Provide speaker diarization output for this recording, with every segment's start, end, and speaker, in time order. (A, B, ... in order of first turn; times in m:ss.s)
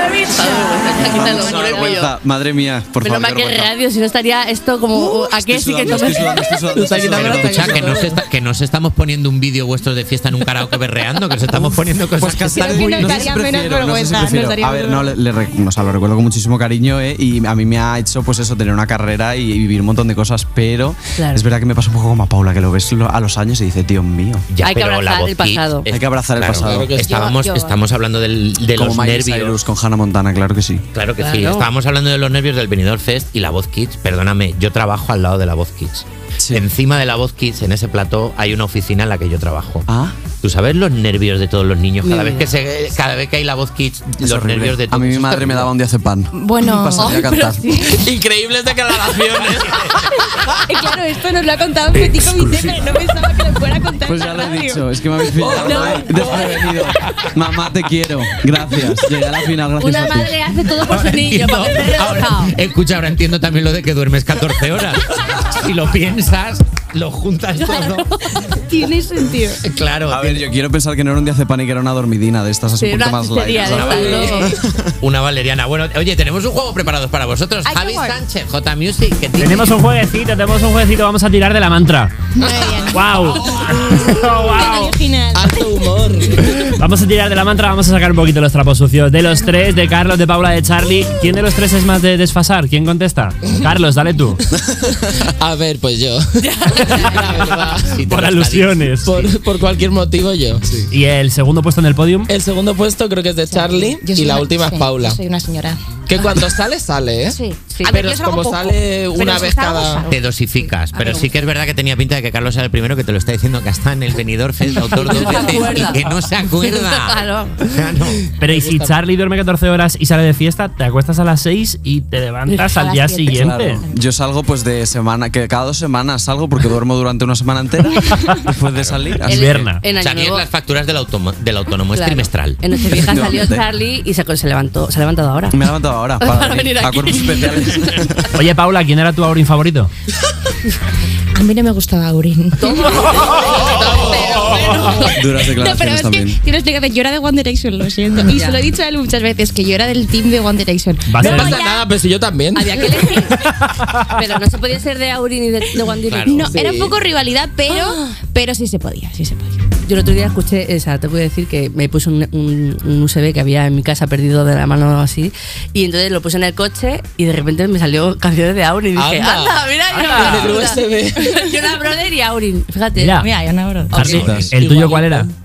0:00.2-0:02.1 A
0:01.0-0:03.7 B
0:03.0-0:08.1 A
0:05.1-0:08.0 B
0:06.8-0:08.1 C
0:07.1-0:13.1 D
0:12.1-0:24.4 B
0:12.5-0:15.1 E
0:21.2-0:21.4 A
0:24.5-0:29.6 D
0:24.6-0:25.9 A
0:25.8-0:26.9 B
0:26.6-0:27.2 C
0:27.0-0:27.8 E
0:28.8-0:30.8 B
0:30.9-0:45.7 D
0:31.2-0:31.7 A
0:39.9-0:40.1 B
0:42.0-0:42.5 A
0:44.2-0:47.9 B
0:46.3-0:47.2 E
0:47.0-0:48.1 A
0:47.8-0:50.0 C
0:49.6-0:49.9 D
0:49.9-0:56.6 E
0:54.0-1:00.3 B
0:55.6-0:56.0 A
0:55.6-0:56.5 C
0:59.8-1:02.6 A
1:00.8-1:08.1 D
1:07.6-1:08.9 A
1:08.7-1:09.6 E
1:09.6-1:10.4 D
1:10.1-1:14.9 B
1:12.8-1:14.6 A
1:13.7-1:14.0 C
1:13.7-1:19.8 D
1:17.6-1:18.2 E
1:19.4-1:22.1 F
1:22.4-1:25.8 E
1:22.9-1:25.0 F
1:25.3-1:26.7 C
1:26.8-1:34.4 F
1:34.7-1:35.0 B
1:35.4-1:38.1 C
1:36.4-1:37.4 A
1:36.8-1:37.4 F
1:37.8-1:39.4 D
1:38.1-1:39.2 F
1:39.0-1:40.9 C
1:40.9-1:42.3 F
1:42.3-1:45.2 C
1:43.5-1:45.8 E
1:46.1-1:50.1 C
1:47.2-1:51.3 E
1:47.7-1:48.0 A
1:50.1-1:58.3 D
1:55.0-1:57.7 A
1:55.1-1:55.4 F
1:58.4-2:03.8 F
1:58.4-1:59.0 C
2:02.6-2:04.0 E
2:03.3-2:09.6 B
2:08.1-2:08.4 F
2:08.8-2:09.1 D
2:09.3-2:09.9 F
2:09.3-2:10.5 A
2:09.9-2:12.6 D
2:11.9-2:15.6 A
2:12.9-2:13.6 B
2:15.5-2:18.4 B
2:16.2-2:18.0 A
2:18.4-2:19.9 F
2:21.3-2:31.9 E
2:22.6-2:23.7 A
2:23.7-2:24.6 C
2:25.1-2:26.4 B
2:28.3-2:28.7 A
2:31.1-2:31.6 F
2:31.2-2:33.1 C
2:32.5-2:33.4 A
2:34.1-2:37.0 A
2:36.0-2:36.5 D
2:36.2-2:39.6 E
2:39.8-2:53.3 A
2:48.9-2:51.4 C
2:53.0-2:53.3 F
2:53.2-2:55.0 E
2:53.9-2:55.3 F
2:53.9-2:54.5 B
2:54.0-2:54.3 A
2:54.2-2:54.6 D
2:54.6-2:55.0 C